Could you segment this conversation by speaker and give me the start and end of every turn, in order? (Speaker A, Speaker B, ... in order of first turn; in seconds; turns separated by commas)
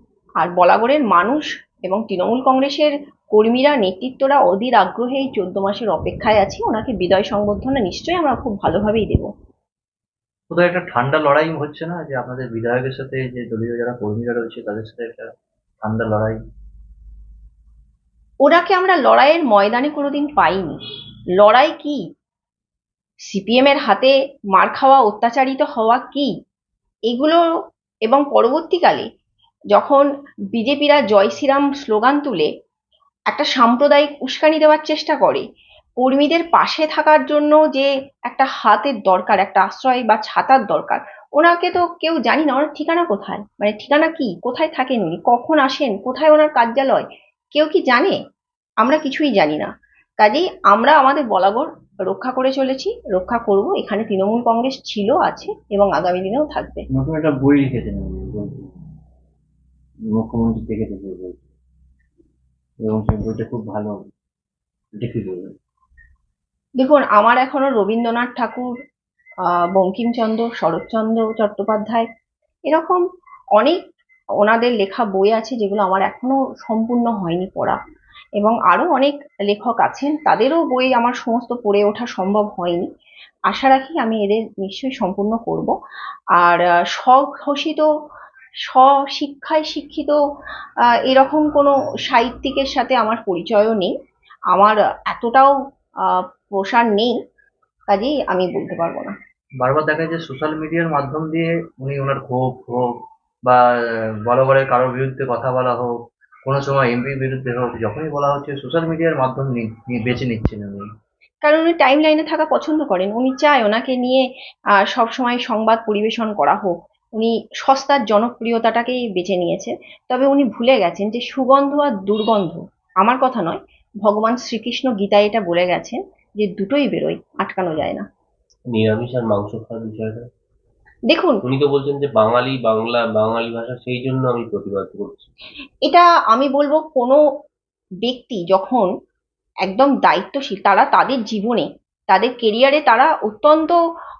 Speaker A: 0.4-9.3, Speaker B: 10.5-16.4, Speaker A: 18.4-20.8, Speaker A: 21.4-22.0, Speaker A: 23.3-26.3, Speaker A: 27.1-27.4, Speaker A: 28.1-29.1, Speaker A: 29.7-32.5, Speaker A: 33.3-35.4, Speaker A: 36.0-48.2, Speaker A: 48.8-56.8, Speaker B: 56.9-58.7, Speaker B: 60.1-61.5, Speaker B: 62.8-64.1, Speaker B: 65.0-65.5, Speaker A: 66.8-68.7, Speaker A: 69.7-72.1, Speaker A: 72.7-73.0, Speaker A: 74.4-77.8, Speaker A: 78.4-82.8, Speaker A: 83.5-85.7, Speaker A: 86.4-87.8, Speaker A: 88.7-90.2, Speaker A: 91.0-93.9, Speaker A: 94.5-95.5, Speaker A: 96.1-97.1, Speaker A: 97.9-99.1, Speaker B: 99.6-110.9, Speaker A: 111.4-114.2, Speaker A: 114.9-128.0, Speaker C: 128.7-130.3, Speaker A: 131.1-131.4, Speaker C: 131.4-135.3, Speaker A: 135.8-137.2, Speaker A: 138.0-138.9, Speaker A: 139.6-143.8